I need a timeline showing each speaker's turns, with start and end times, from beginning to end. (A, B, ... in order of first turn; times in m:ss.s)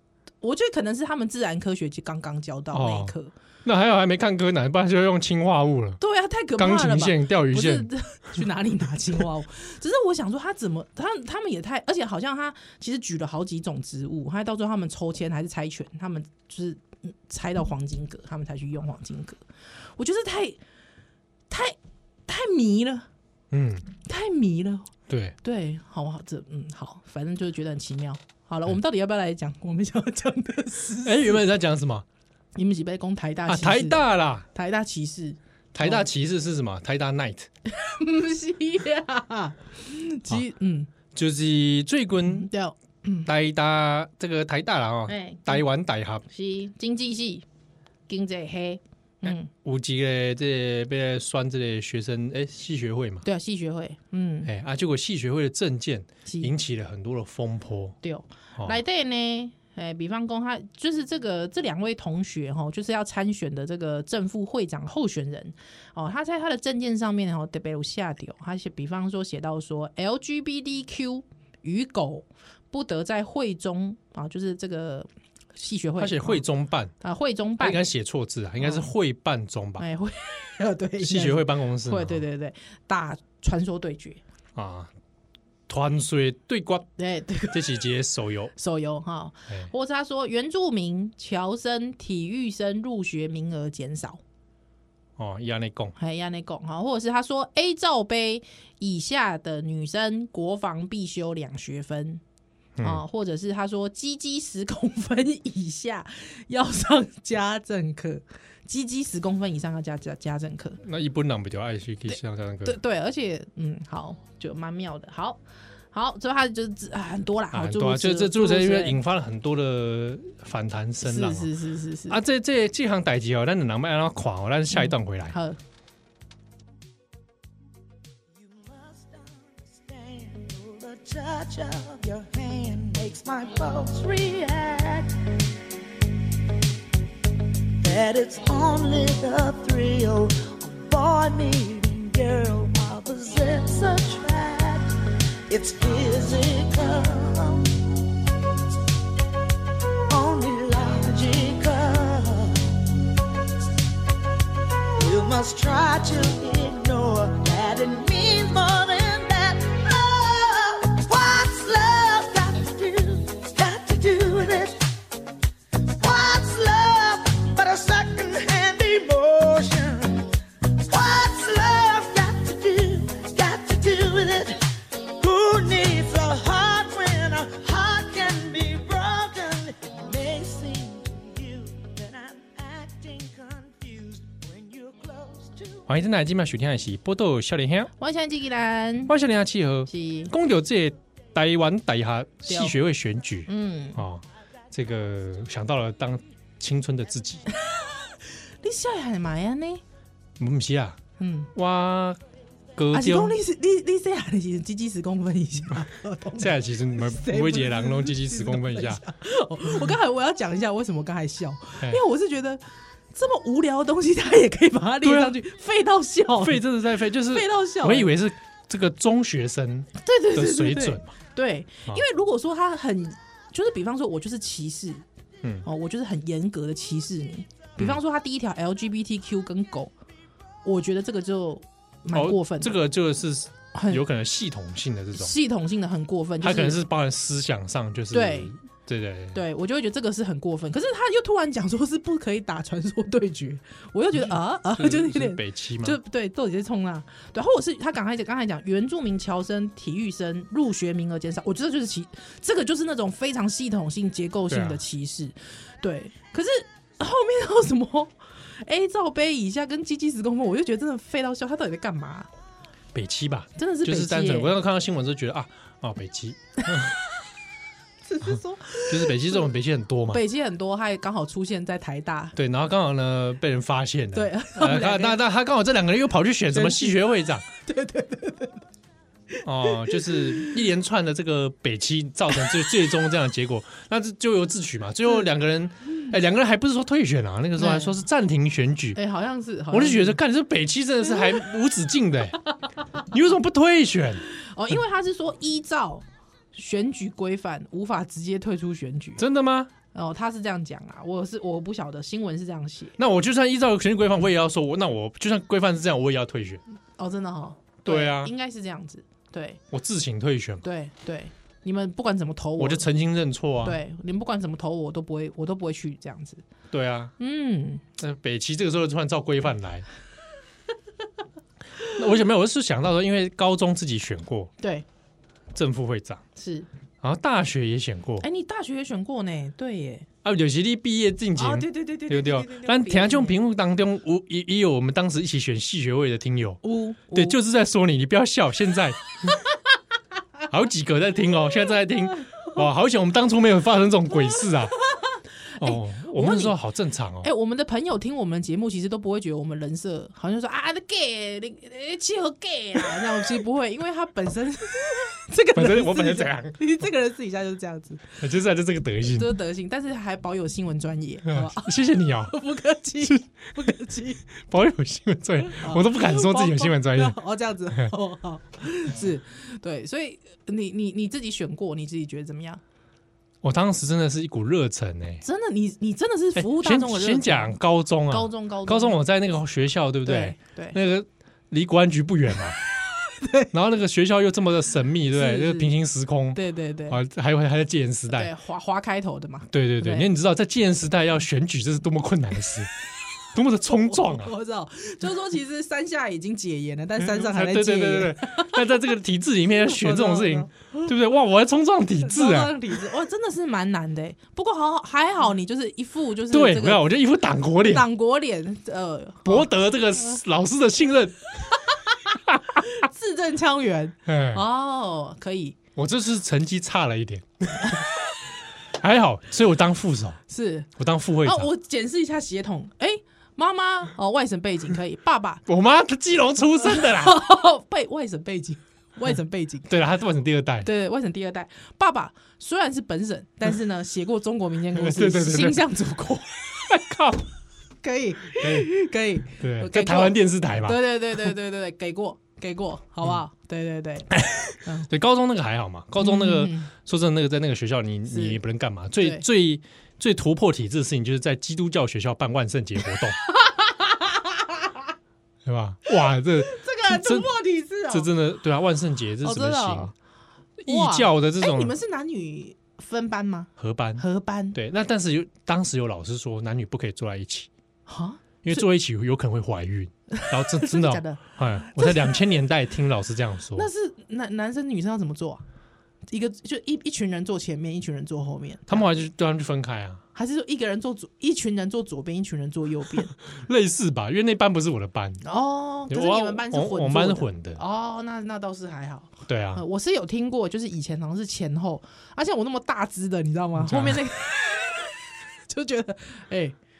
0:00.4-0:03.3 A
0:02.7-0:06.0 B
0:06.0-0:19.4 A
0:06.6-0:07.9 B
0:20.0-0:20.6 A
0:21.5-0:21.8 A
0:22.3-0:23.1 A
0:23.5-0:23.8 B
0:24.0-0:24.9 A
0:25.1-0:25.4 B
0:25.4-0:31.4 A
0:31.0-0:32.0 B
0:32.6-0:36.1 A
0:33.5-0:34.4 B
0:35.7-0:37.5 B
0:37.7-0:40.9 A
0:41.1-0:42.5 B
0:42.2-0:43.3 A
0:43.2-0:46.2 B
0:45.1-0:45.6 A
0:46.2-0:47.4 A
0:48.1-0:49.5 A
0:49.2-0:53.2 B
0:53.2-0:54.5 A
0:54.4-0:58.0 B
0:56.2-0:56.5 A
0:58.0-1:16.4 A
1:16.0-1:16.9 B
1:17.0-1:17.8 A
1:17.6-1:19.8 B
1:18.6-1:18.9 A
1:19.8-1:24.2 A
1:21.0-1:22.2 B
1:24.5-1:24.9 B
1:25.7-1:26.9 B
1:27.0-1:27.8 A
1:27.5-1:28.5 B
1:28.5-1:34.2 A
1:35.2-1:35.9 B
1:36.0-1:42.2 A
1:42.8-1:43.0 B
1:42.8-1:50.8 A
1:50.8-1:52.8 B
1:52.1-1:55.4 A
1:55.9-1:59.0 A
1:57.5-2:01.5 B
2:01.0-2:02.2 A
2:02.1-2:05.4 B
2:04.7-2:05.6 A
2:08.4-2:15.3 C
2:17.8-2:24.9 C
2:25.5-2:27.8 C
2:30.1-2:32.8 C
2:35.0-2:44.9 C
2:45.8-3:05.8 C
3:05.9-3:07.9 B
3:08.0-3:09.1 A
3:09.1-3:17.4 B
3:09.9-3:10.3 A
3:12.5-3:12.8 A
3:13.5-3:14.0 A
3:17.5-3:19.8 A
3:20.4-3:21.0 B
3:21.2-3:21.5 A
3:21.5-3:22.2 B
3:22.8-3:23.4 B
3:22.9-3:32.6 A
3:26.4-3:29.0 B
3:33.1-3:38.1 A
3:35.0-3:35.3 B
3:36.4-3:41.1 B
3:40.0-3:45.0 A
3:45.6-3:49.9 A
3:50.6-3:52.7 A
3:52.1-3:55.3 B
3:53.7-3:54.0 A
3:55.2-3:56.8 A
3:56.4-3:59.4 B
3:58.1-3:58.5 A
3:59.3-4:22.3 A
4:04.7-4:06.0 B
4:14.5-4:14.8 B
4:22.9-4:27.0 B
4:23.6-4:24.5 A
4:28.0-4:29.5 A
4:28.9-4:30.2 B
4:30.1-4:32.4 A
4:32.4-4:37.4 B
4:34.1-4:35.2 A
4:36.5-4:37.0 A
4:37.6-4:38.6 A
4:39.3-4:40.6 A
4:39.4-4:49.0 B
4:47.6-4:48.0 A
4:48.9-4:50.2 A
4:49.7-4:52.4 B
4:53.0-4:54.2 B
4:54.3-4:59.2 A
4:59.2-4:59.7 B
4:59.9-5:03.0 A
5:03.0-5:06.6 B
5:07.0-5:09.6 A
5:07.8-5:08.3 B
5:09.7-5:10.6 B
5:10.6-5:12.8 A
5:12.6-5:13.8 B
5:13.6-5:16.4 A
5:16.7-5:17.1 B
5:17.2-5:17.8 A
5:18.0-5:19.8 B
5:21.9-5:24.5 B
5:24.6-5:24.8 A
5:25.5-5:26.2 B
5:26.4-5:26.7 A
5:27.0-5:28.2 B
5:28.2-5:30.1 A
5:30.2-5:39.3 B
5:31.4-5:33.4 A
5:36.6-5:37.4 A
5:40.5-5:44.8 B
5:44.8-5:46.6 A
5:45.6-5:47.3 B
5:47.2-5:58.2 A
5:55.5-5:56.6 B
5:58.2-5:59.4 B
5:59.1-6:04.2 A
6:01.2-6:02.3 B
6:03.0-6:03.7 B
6:04.4-6:07.2 B
6:05.4-6:12.6 A
6:13.4-6:15.2 B
6:15.2-6:17.6 A
6:16.3-6:22.6 B
6:18.1-6:19.0 A
6:20.0-6:20.8 A
6:23.2-6:23.5 A
6:23.5-6:28.3 B
6:25.1-6:25.7 A
6:26.3-6:27.0 A
6:28.1-6:30.1 A
6:29.5-6:32.7 B
6:33.3-6:34.3 B
6:33.7-6:38.9 A
6:37.0-6:42.6 B
6:39.6-6:40.9 A
6:42.0-6:46.8 A
6:46.3-6:47.9 B
6:47.6-6:49.5 A
6:49.2-6:51.2 B
6:51.6-6:55.6 A
6:52.3-6:52.6 B
6:54.0-6:54.4 B
6:55.8-6:57.9 B
6:58.8-7:00.2 B
7:00.3-7:00.7 A
7:00.8-7:01.5 B
7:01.2-7:05.4 A
7:05.5-7:07.2 B
7:06.6-7:09.7 A
7:09.7-7:10.7 B
7:10.6-7:16.4 A
7:14.7-7:15.6 B
7:16.7-7:17.3 B
7:17.8-7:24.9 A
7:18.4-7:18.7 B
7:19.4-7:20.8 B
7:24.1-7:33.2 B
7:26.0-7:26.7 A
7:28.1-7:28.4 A
7:33.3-7:34.8 A
7:35.4-7:37.3 B
7:36.3-7:38.1 A
7:37.9-7:39.9 B
7:39.2-7:39.9 A
7:40.6-7:44.6 A
7:40.6-7:41.7 B
7:43.6-7:47.5 B
7:47.9-7:48.6 A
7:48.4-7:53.7 B
7:50.1-7:52.2 A
7:53.5-7:55.4 A
7:56.1-7:58.9 A
7:58.7-8:00.0 B
8:00.1-8:03.1 A
8:03.3-8:05.2 B
8:05.2-8:14.9 A
8:05.9-8:07.6 B
8:09.3-8:09.6 B
8:13.6-8:14.0 B
8:15.5-8:16.6 A